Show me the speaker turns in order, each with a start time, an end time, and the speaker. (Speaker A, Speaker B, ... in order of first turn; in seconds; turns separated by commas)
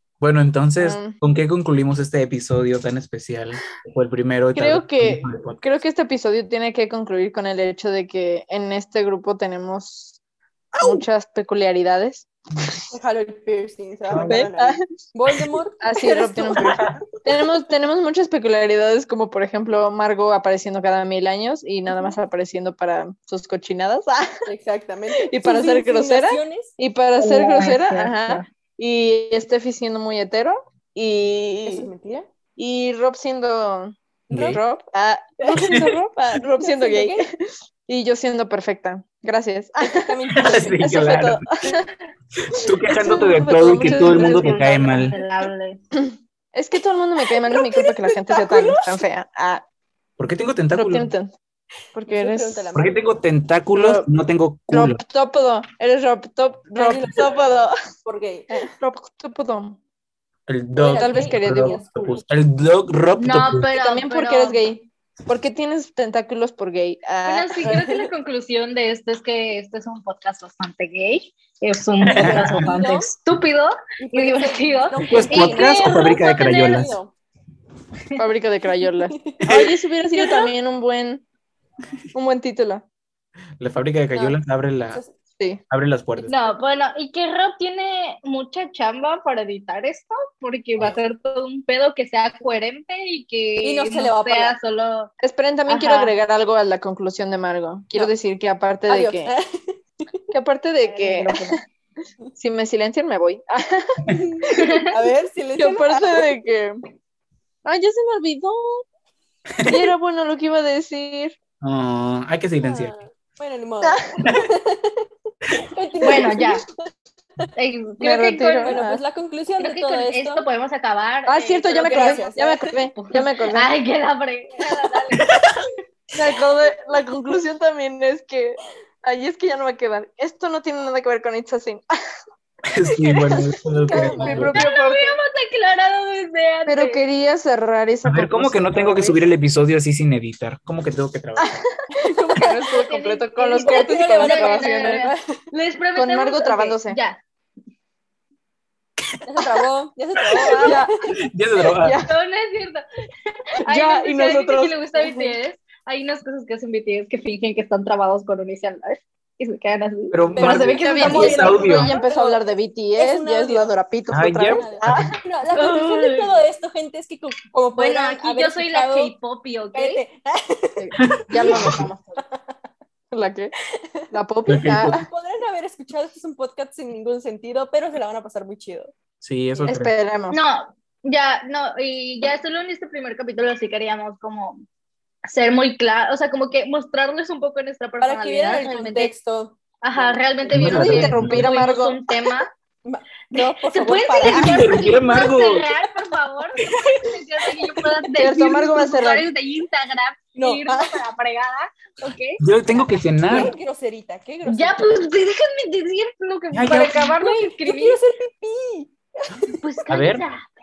Speaker A: 0.2-5.6, Speaker B: 0.8-1.2, Speaker B: 4.5-10.2, Speaker B: 10.8-12.8, Speaker C: 12.9-17.0, Speaker A: 14.1-14.5, Speaker B: 14.2-14.8, Speaker B: 15.8-24.3, Speaker A: 16.6-17.0, Speaker C: 24.5-26.7, Speaker B: 25.3-31.9, Speaker D: 27.2-28.4, Speaker C: 31.7-32.3, Speaker B: 32.6-37.3, Speaker A: 34.3-34.6, Speaker C: 35.4-35.9, Speaker A: 35.6-35.9, Speaker C: 36.6-37.2, Speaker B: 37.9-41.9, Speaker C: 39.9-40.9, Speaker A: 40.3-41.8, Speaker A: 42.4-45.1, Speaker B: 42.9-44.7, Speaker C: 43.0-44.4, Speaker D: 44.0-45.8, Speaker B: 45.9-49.6, Speaker C: 47.4-49.0, Speaker A: 50.2-51.1, Speaker B: 50.7-51.3, Speaker B: 52.0-52.7, Speaker C: 52.1-53.1, Speaker A: 52.8-55.0, Speaker B: 53.7-54.1, Speaker B: 54.7-57.7, Speaker C: 56.8-57.5, Speaker C: 58.0-58.6, Speaker B: 58.5-59.8, Speaker A: 60.5-63.7, Speaker C: 60.8-62.2, Speaker B: 60.8-61.8, Speaker D: 63.2-64.6, Speaker B: 63.7-67.8, Speaker D: 67.2-76.9, Speaker C: 67.6-68.1, Speaker A: 72.0-72.8, Speaker C: 72.2-73.1, Speaker C: 74.0-77.1, Speaker A: 75.0-77.0, Speaker B: 78.2-81.2, Speaker C: 79.0-79.4, Speaker A: 79.5-79.7, Speaker D: 80.1-80.5, Speaker B: 82.1-82.8, Speaker A: 83.6-85.0, Speaker C: 84.1-84.4, Speaker A: 85.7-86.3, Speaker C: 86.2-86.5, Speaker D: 86.3-95.1, Speaker C: 93.6-94.6, Speaker B: 95.2-99.3, Speaker D: 95.7-96.2, Speaker C: 98.9-100.2, Speaker B: 100.3-101.6, Speaker D: 100.8-101.6, Speaker B: 102.4-104.7, Speaker C: 104.1-106.3, Speaker D: 104.5-104.9, Speaker B: 105.6-106.8, Speaker B: 107.7-108.8, Speaker B: 109.7-111.4, Speaker A: 111.6-112.9, Speaker C: 112.6-115.0, Speaker B: 113.8-114.4, Speaker C: 115.6-116.7, Speaker D: 116.0-116.7, Speaker D: 117.5-118.8, Speaker B: 118.0-119.0, Speaker C: 118.6-120.5, Speaker D: 119.6-122.4, Speaker B: 121.3-123.7, Speaker C: 121.8-122.6, Speaker D: 122.9-125.3, Speaker C: 124.6-125.7, Speaker B: 126.1-131.9, Speaker A: 132.7-134.5, Speaker C: 133.9-134.5, Speaker B: 133.9-135.2, Speaker D: 134.2-137.0, Speaker B: 136.7-139.2, Speaker A: 138.1-141.5, Speaker B: 141.4-145.1, Speaker C: 142.1-142.6, Speaker D: 142.7-147.2, Speaker C: 143.6-145.2, Speaker B: 146.0-147.0, Speaker A: 149.1-149.5, Speaker C: 149.2-150.9, Speaker A: 150.2-152.0, Speaker B: 150.5-151.0, Speaker B: 151.6-152.1, Speaker D: 152.0-161.8, Speaker B: 153.7-155.3, Speaker A: 160.1-161.9, Speaker B: 160.4-165.2, Speaker C: 160.4-162.4, Speaker C: 162.9-163.7, Speaker A: 164.1-165.2, Speaker C: 165.2-169.1, Speaker D: 165.5-166.4, Speaker D: 167.8-170.0, Speaker C: 169.7-172.4, Speaker B: 170.8-172.2, Speaker A: 171.0-171.9, Speaker B: 173.1-173.5, Speaker C: 173.7-174.0, Speaker B: 174.1-175.1, Speaker A: 174.5-175.1, Speaker C: 174.7-178.9, Speaker A: 179.2-179.9, Speaker B: 179.7-180.4, Speaker D: 180.3-184.6, Speaker D: 185.3-189.1, Speaker C: 188.0-190.8, Speaker D: 189.8-192.5, Speaker A: 190.5-191.5, Speaker B: 190.5-192.0, Speaker C: 192.8-194.8, Speaker D: 193.3-202.4, Speaker A: 194.2-195.7, Speaker A: 196.7-197.1, Speaker B: 198.2-199.3, Speaker C: 200.4-201.0, Speaker A: 202.4-203.5, Speaker C: 203.2-205.1, Speaker D: 204.4-208.0, Speaker A: 206.5-207.1, Speaker C: 206.9-209.6, Speaker D: 209.6-210.5, Speaker A: 209.9-210.2